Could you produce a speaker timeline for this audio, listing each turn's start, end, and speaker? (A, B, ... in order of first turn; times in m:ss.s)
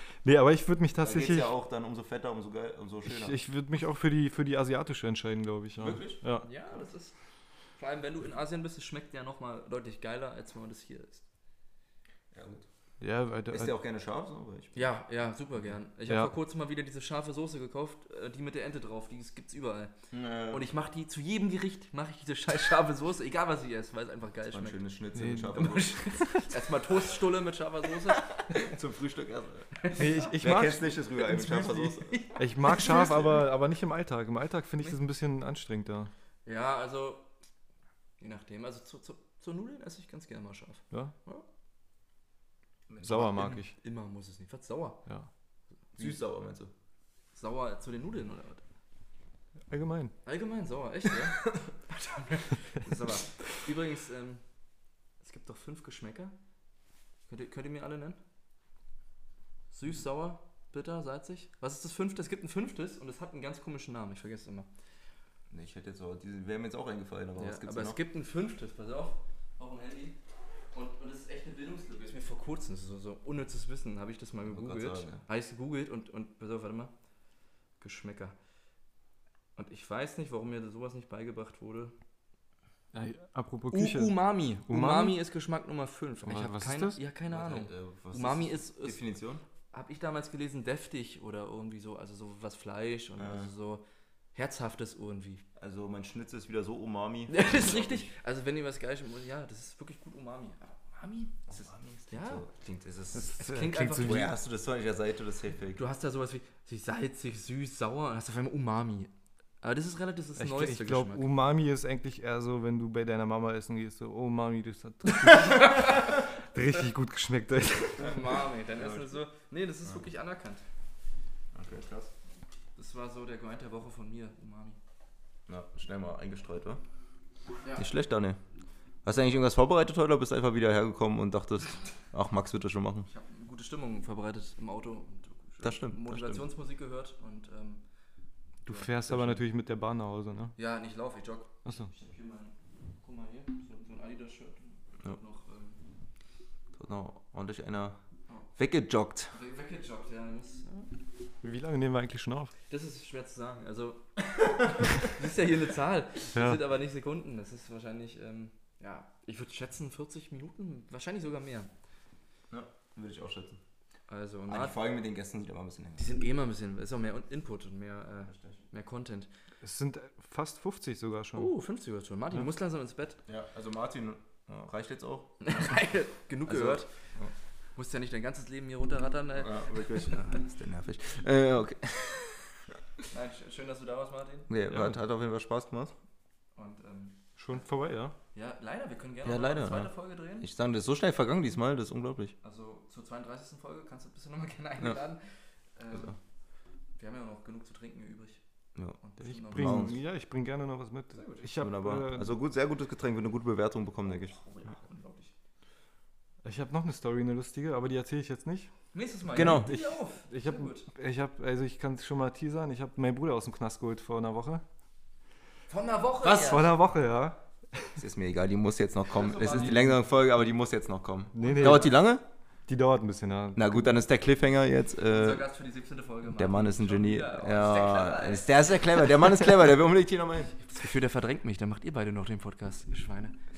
0:00.2-0:01.6 A
0:01.0-0:03.4 B
0:03.1-0:06.5 A
0:05.8-0:06.2 B
0:06.4-0:07.1 C
0:07.8-0:11.2 C
0:12.3-0:12.7 B
0:13.0-0:13.7 A
0:13.5-0:14.9 B
0:14.8-0:19.9 C
0:20.1-0:20.7 B
0:20.5-0:24.8 C
0:24.5-0:26.0 B
0:25.2-0:25.8 A
0:25.6-0:28.5 C
0:28.5-0:29.7 B
0:29.8-0:30.4 C
0:29.9-0:30.9 A
0:30.3-0:32.2 B
0:31.2-0:33.4 C
0:32.4-0:36.1 A
0:36.5-0:37.3 C
0:38.2-0:41.4 C
0:42.9-0:43.6 B
0:43.0-0:43.7 A
0:43.1-0:45.0 C
0:46.0-0:46.7 B
0:47.3-0:48.6 C
0:49.7-0:50.1 A
0:50.2-0:54.4 C
0:55.2-0:56.4 C
0:57.3-0:58.2 C
0:59.7-1:04.7 C
1:05.5-1:08.0 B
1:07.4-1:10.2 C
1:10.7-1:16.9 C
1:14.5-1:15.2 B
1:17.8-1:18.4 C
1:19.6-1:21.9 C
1:22.9-1:25.2 A
1:23.7-1:29.0 C
1:26.3-1:27.0 A
1:27.3-1:29.4 B
1:29.7-1:35.4 C
1:33.2-1:33.5 B
1:35.6-1:38.1 B
1:37.3-1:41.4 C
1:41.5-1:45.8 B
1:42.1-1:42.4 C
1:43.1-1:44.3 A
1:43.4-1:44.3 C
1:45.8-1:49.1 C
1:49.6-1:51.3 C
1:50.4-1:58.2 A
1:55.2-1:56.1 C
1:57.9-2:00.6 C
1:58.7-1:59.2 B
2:01.5-2:02.1 B
2:02.8-2:04.8 C
2:05.5-2:06.8 B
2:07.6-2:07.9 C
2:07.8-2:08.4 B
2:09.0-2:13.1 B
2:13.1-2:17.8 C
2:15.6-2:16.5 B
2:18.6-2:20.6 A
2:18.7-2:19.4 C
2:20.6-2:25.8 C
2:26.7-2:28.0 B
2:28.6-2:29.4 B
2:29.3-2:30.9 C
2:31.4-2:32.5 A
2:32.7-2:34.2 C
2:35.0-2:41.7 C
2:36.4-2:36.6 A
2:42.5-2:43.6 B
2:44.1-2:44.8 C
2:44.5-2:46.1 B
2:46.0-2:49.3 C
2:49.6-2:51.5 A
2:51.4-2:53.2 C
2:53.3-2:55.8 B
2:55.4-2:56.9 C
2:56.5-2:57.3 B
2:57.8-3:00.4 C
2:59.4-3:02.7 B
3:03.1-3:04.5 C
3:04.5-3:05.9 B
3:06.6-3:07.2 C
3:07.4-3:08.2 A
3:08.3-3:10.5 C
3:09.2-3:12.4 B
3:12.4-3:16.2 C
3:17.0-3:18.4 C
3:19.0-3:19.9 C
3:19.2-3:22.3 A
3:19.5-3:20.0 B
3:21.1-3:21.5 C
3:21.6-3:24.4 B
3:24.1-3:25.3 C
3:26.4-3:28.7 A
3:28.9-3:30.9 C
3:29.3-3:29.8 B
3:29.4-3:34.6 A
3:35.7-3:36.8 C
3:36.2-3:37.9 A
3:38.0-3:42.2 B
3:39.1-3:40.0 C
3:41.3-3:42.0 A
3:42.7-3:43.9 A
3:43.6-3:45.5 B
3:45.1-3:48.8 C
3:46.3-3:50.6 B
3:50.6-3:53.4 C